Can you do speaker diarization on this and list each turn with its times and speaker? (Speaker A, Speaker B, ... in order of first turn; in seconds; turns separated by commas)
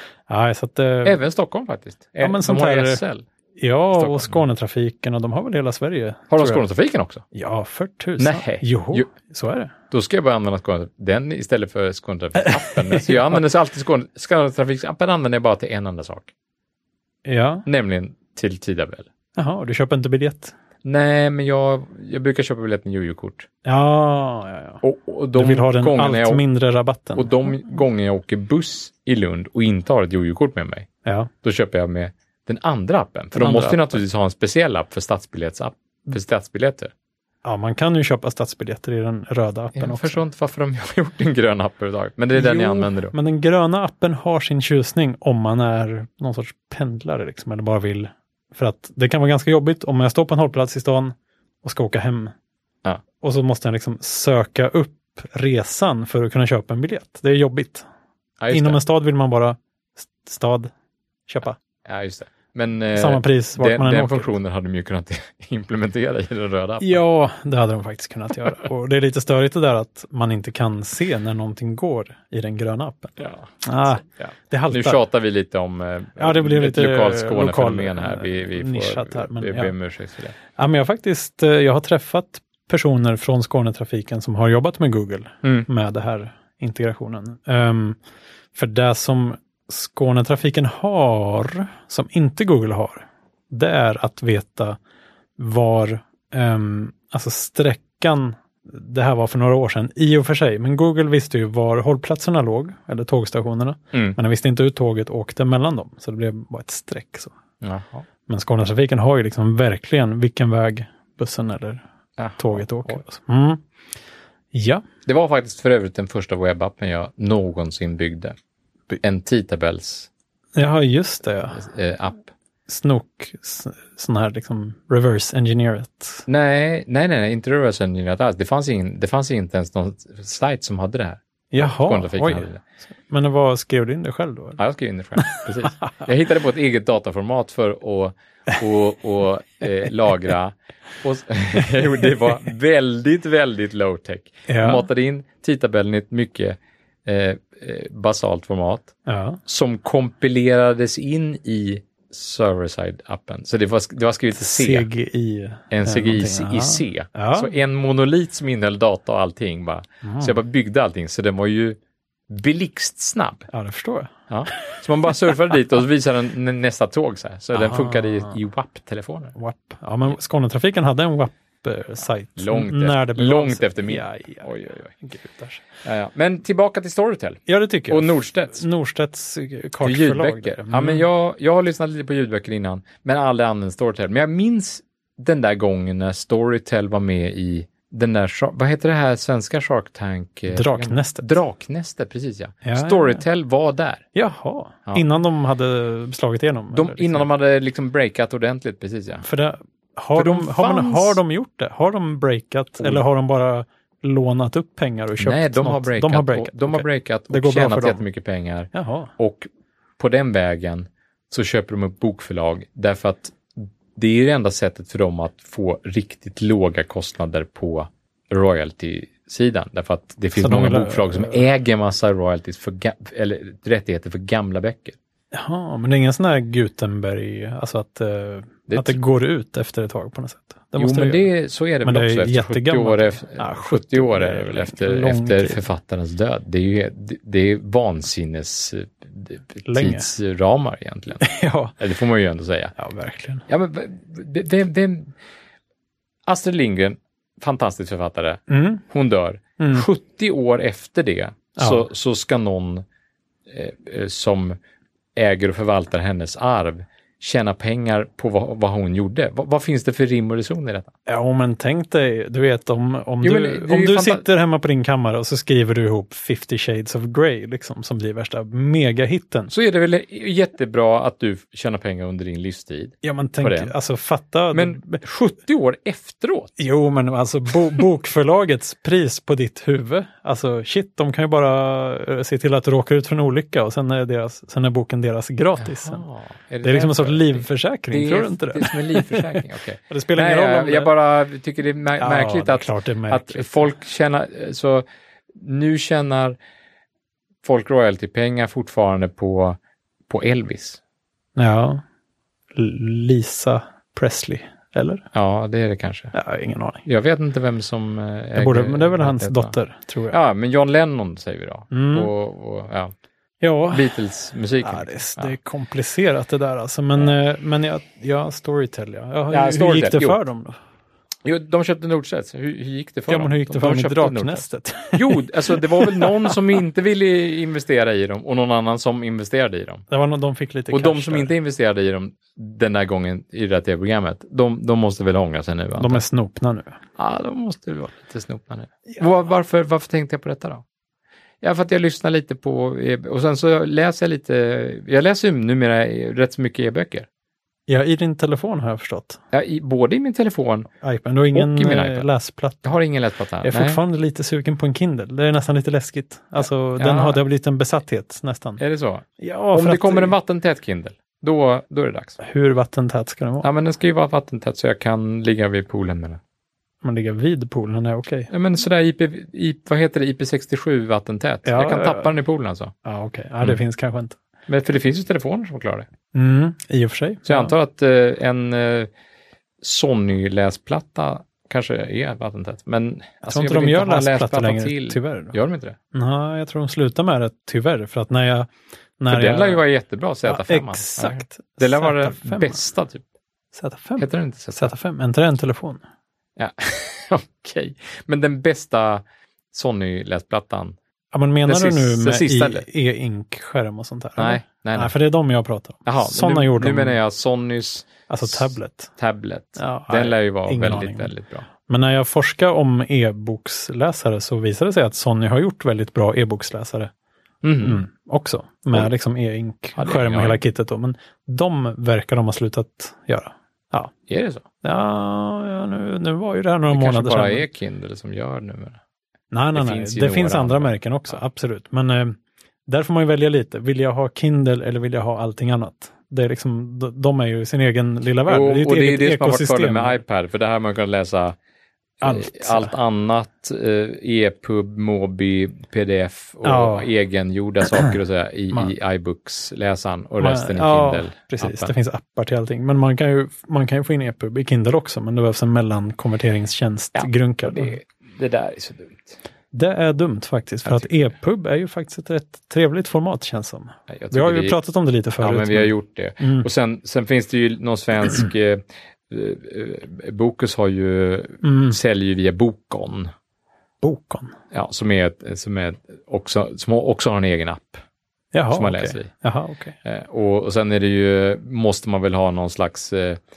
Speaker A: 0.3-1.2, Speaker B: 1.1-3.3, Speaker A: 2.2-3.0, Speaker A: 3.6-6.6, Speaker B: 3.9-4.4, Speaker B: 6.3-7.2, Speaker A: 7.3-9.7, Speaker B: 8.2-9.1, Speaker B: 9.9-16.3, Speaker A: 12.4-13.2, Speaker A: 17.3-17.7, Speaker B: 17.7-19.1, Speaker A: 19.4-20.5, Speaker B: 20.8-23.5, Speaker A: 23.6-24.8, Speaker B: 24.8-26.4, Speaker A: 25.4-27.5, Speaker B: 27.1-30.9, Speaker A: 31.1-31.3, Speaker B: 31.4-36.9, Speaker A: 33.4-34.0, Speaker A: 37.4-40.2, Speaker B: 39.8-43.1, Speaker A: 42.3-52.3, Speaker A: 53.2-57.9, Speaker B: 58.4-58.8, Speaker A: 58.5-60.7, Speaker A: 61.3-61.6, Speaker B: 61.9-67.0, Speaker A: 62.9-64.3, Speaker A: 66.8-75.0, Speaker B: 73.2-80.4, Speaker A: 76.2-79.7, Speaker A: 80.6-88.0, Speaker A: 88.5-94.8, Speaker A: 95.4-107.3, Speaker B: 107.6-108.0, Speaker A: 108.3-111.8, Speaker B: 112.2-113.0, Speaker A: 112.4-113.6, Speaker A: 114.5-114.8, Speaker B: 115.1-118.3, Speaker B: 119.0-120.1, Speaker A: 120.6-121.6, Speaker B: 121.5-122.3, Speaker A: 122.7-126.3, Speaker B: 126.3-132.6, Speaker A: 131.5-132.5, Speaker A: 133.1-134.6, Speaker B: 134.6-148.9, Speaker A: 135.2-136.0, Speaker A: 144.5-144.9, Speaker A: 149.1-149.4, Speaker B: 149.5-154.9, Speaker A: 154.4-157.5, Speaker B: 155.7-161.8, Speaker A: 160.0-160.4, Speaker B: 162.3-163.5, Speaker A: 163.5-165.2, Speaker B: 164.3-169.3, Speaker A: 167.5-168.4, Speaker A: 169.3-175.7, Speaker B: 172.4-174.9, Speaker B: 175.8-178.6, Speaker A: 177.5-181.1, Speaker B: 179.8-194.1, Speaker A: 190.5-191.3, Speaker A: 192.6-193.2, Speaker A: 194.1-197.3, Speaker B: 196.7-199.2, Speaker A: 199.2-208.0, Speaker B: 200.2-201.2, Speaker B: 205.2-225.0, Speaker A: 208.7-209.1, Speaker A: 220.4-221.4, Speaker A: 225.3-231.3, Speaker B: 228.7-229.0, Speaker B: 230.8-241.2, Speaker A: 231.8-235.7, Speaker A: 239.7-240.1, Speaker A: 241.2-241.8, Speaker B: 241.8-242.7, Speaker A: 242.8-243.5, Speaker B: 243.5-245.1, Speaker B: 246.3-252.8, Speaker A: 248.5-248.8, Speaker A: 249.6-249.9, Speaker A: 251.6-251.9, Speaker B: 253.5-254.6, Speaker B: 255.2-260.9, Speaker A: 261.1-269.5, Speaker B: 263.2-264.2, Speaker B: 269.5-273.7, Speaker A: 273.0-275.0, Speaker B: 274.5-276.5, Speaker A: 276.6-286.0, Speaker B: 285.6-296.4, Speaker A: 286.6-290.9, Speaker A: 292.0-293.7, Speaker B: 297.4-299.6, Speaker B: 300.1-300.8, Speaker A: 301.4-301.8, Speaker A: 302.6-305.1, Speaker B: 305.1-306.1, Speaker A: 306.1-306.8, Speaker B: 306.9-309.5, Speaker A: 308.4-310.2, Speaker B: 310.1-312.9, Speaker A: 311.7-312.1, Speaker A: 313.4-314.0, Speaker B: 313.7-315.4, Speaker A: 314.6-320.6, Speaker B: 319.3-320.2, Speaker B: 321.2-329.9, Speaker A: 323.1-326.4, Speaker A: 329.9-331.3, Speaker B: 330.7-336.0, Speaker A: 335.8-336.8, Speaker B: 337.0-340.6, Speaker B: 341.4-347.1, Speaker A: 347.7-349.2, Speaker B: 349.3-350.7, Speaker A: 350.8-352.7, Speaker B: 351.3-352.1, Speaker B: 352.6-353.8, Speaker A: 353.4-358.6, Speaker B: 356.4-357.2, Speaker B: 358.6-362.2, Speaker A: 359.2-360.1, Speaker A: 362.2-363.5, Speaker B: 363.4-366.2, Speaker A: 366.8-368.3, Speaker B: 368.3-372.7, Speaker A: 371.4-372.1, Speaker A: 372.9-374.2, Speaker B: 374.5-375.9, Speaker A: 376.1-377.5, Speaker B: 377.3-378.9, Speaker B: 379.6-385.8, Speaker A: 383.2-385.4, Speaker A: 385.9-389.6, Speaker B: 389.1-393.1, Speaker A: 390.3-392.6, Speaker A: 393.5-395.8, Speaker B: 394.0-394.7, Speaker B: 396.4-400.8, Speaker A: 401.1-407.0, Speaker B: 401.5-402.6, Speaker B: 404.2-404.9, Speaker B: 405.9-411.5, Speaker A: 408.1-408.9, Speaker A: 409.6-411.1, Speaker A: 411.7-416.9, Speaker B: 417.4-417.8, Speaker A: 417.6-423.9, Speaker B: 419.8-420.4, Speaker B: 424.1-424.4, Speaker A: 424.6-427.4, Speaker B: 426.7-428.8, Speaker A: 429.3-440.0, Speaker B: 429.6-431.2, Speaker B: 438.3-441.4, Speaker B: 442.0-451.7, Speaker A: 442.0-442.7, Speaker A: 446.4-446.9, Speaker A: 450.2-457.8, Speaker B: 457.0-459.1, Speaker A: 459.5-466.5, Speaker B: 460.6-461.1, Speaker B: 463.9-464.6, Speaker B: 465.2-473.1, Speaker A: 471.4-471.8, Speaker A: 473.8-474.4, Speaker B: 474.5-477.8, Speaker A: 478.3-479.8, Speaker B: 478.5-479.1, Speaker B: 479.8-483.2